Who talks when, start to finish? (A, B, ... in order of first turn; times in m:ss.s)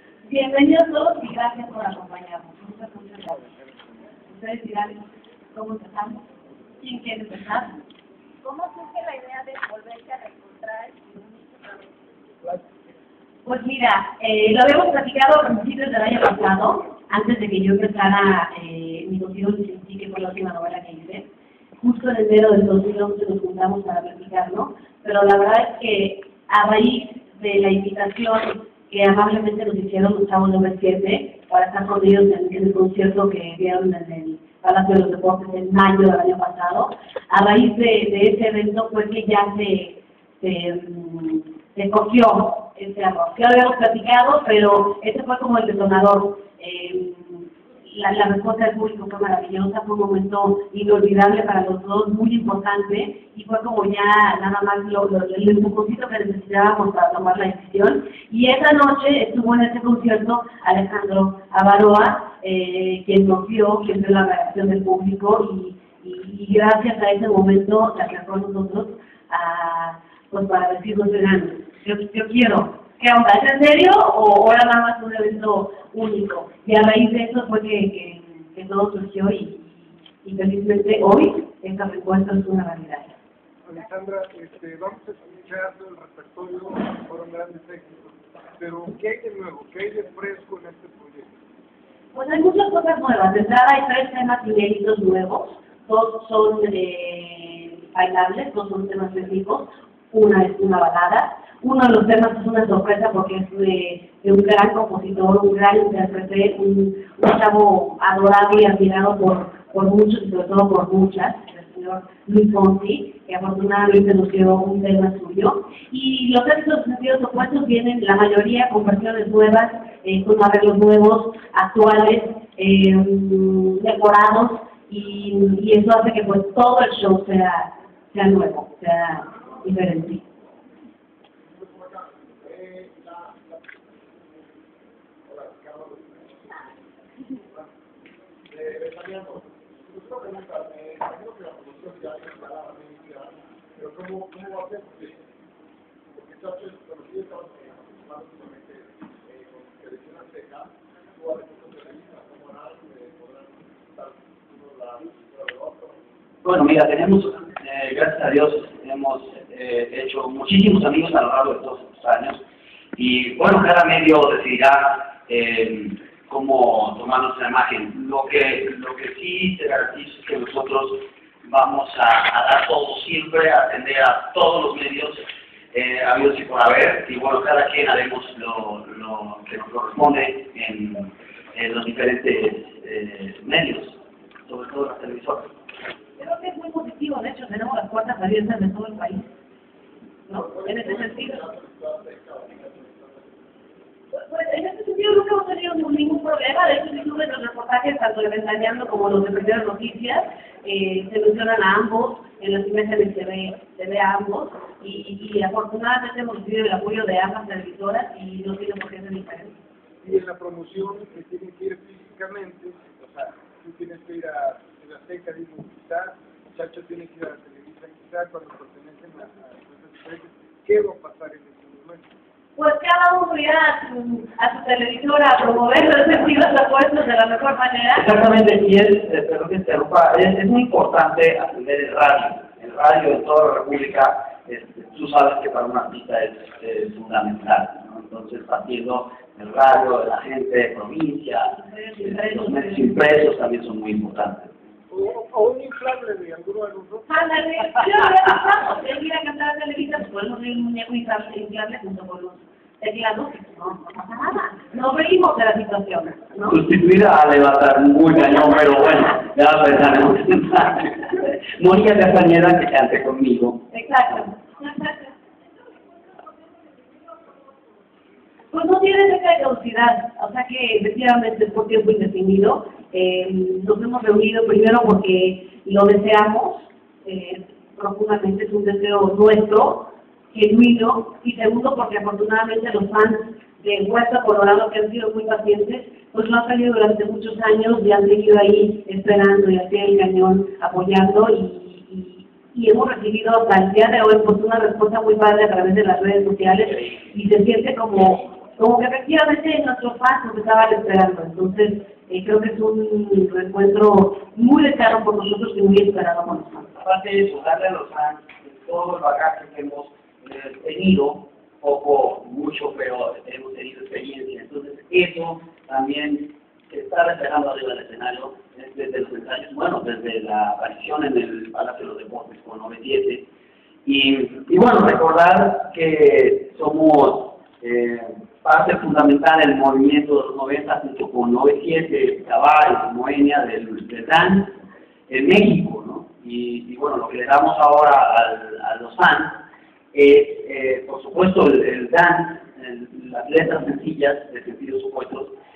0:00.3-0:03.5 A
0:03.5-0:03.9 B
0:04.3-0:06.3 A
0:06.8-0:07.7 A
0:08.4-0:11.9 C
0:13.5-1:23.1 A
1:23.6-1:31.4 B
1:32.1-2:10.2 A
2:11.4-2:13.7 B
2:15.3-2:16.6 B
2:18.5-2:25.2 B
2:26.1-2:36.0 B
2:36.4-2:42.4 D
2:43.0-3:05.5 D
3:06.2-3:09.3 A
3:10.3-3:11.4 A
3:10.4-3:13.4 B
3:14.1-3:29.6 A
3:30.0-3:42.1 B
3:42.6-3:48.0 A
3:48.0-4:04.5 D
4:01.5-4:02.9 A
4:04.9-4:07.5 B
4:07.1-4:16.6 A
4:16.5-4:23.7 D
4:23.7-4:25.1 A
4:25.9-4:27.6 C
4:28.5-5:06.7 A
5:06.8-5:23.3 D
5:23.9-5:34.6 D
5:35.1-5:45.3 D